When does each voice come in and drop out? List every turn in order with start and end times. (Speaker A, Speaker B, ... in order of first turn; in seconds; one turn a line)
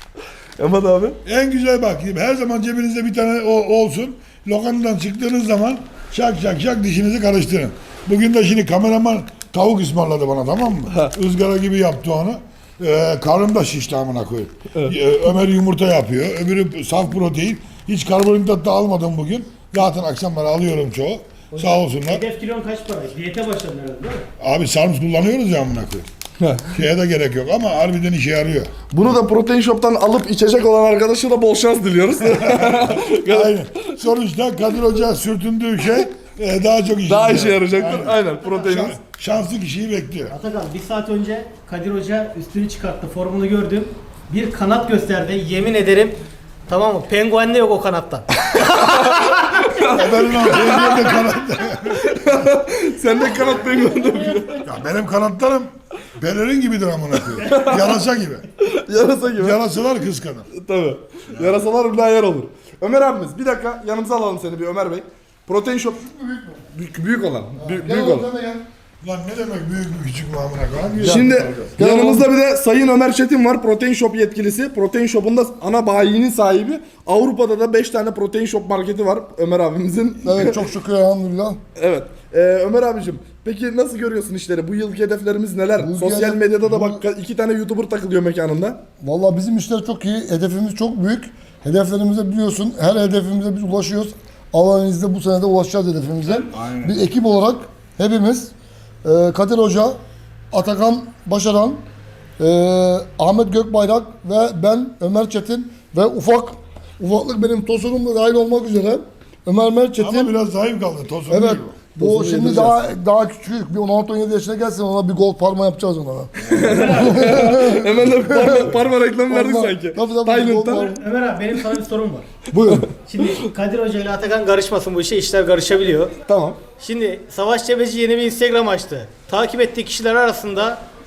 Speaker A: 0.6-1.2
Speaker B: 1.2-22.2
Speaker C: 21.5-24.3
Speaker B: 24.4-26.1
Speaker A: 26.4-26.7
Speaker B: 26.7-28.7
Speaker A: 28.9-33.5
Speaker B: 32.2-40.3
Speaker A: 37.1-39.0
Speaker C: 40.3-49.7
Speaker A: 49.7-51.3
Speaker B: 49.8-52.2
Speaker A: 52.0-54.6
Speaker C: 53.5-54.7
Speaker B: 54.6-58.5
Speaker A: 57.4-57.9
Speaker A: 58.6-59.6
Speaker B: 59.3-60.5
Speaker A: 60.5-66.1
Speaker B: 61.3-61.6
Speaker D: 66.0-66.6
Speaker A: 66.7-68.3
Speaker D: 67.6-68.6
Speaker B: 69.0-71.3
Speaker D: 71.0-72.3
Speaker A: 71.0-80.6
Speaker D: 80.2-81.6
Speaker A: 81.8-88.8
Speaker D: 85.8-87.0
Speaker D: 89.0-100.0
Speaker B: 96.5-97.0
Speaker D: 100.5-101.8
Speaker D: 102.4-110.3
Speaker B: 110.0-111.8
Speaker D: 111.3-118.7
Speaker A: 112.0-112.8
Speaker A: 116.5-121.0
Speaker C: 116.6-117.7
Speaker D: 119.3-121.0
Speaker C: 120.8-122.2
Speaker D: 122.5-122.9
Speaker C: 123.0-126.1
Speaker A: 126.3-126.6
Speaker C: 126.8-130.8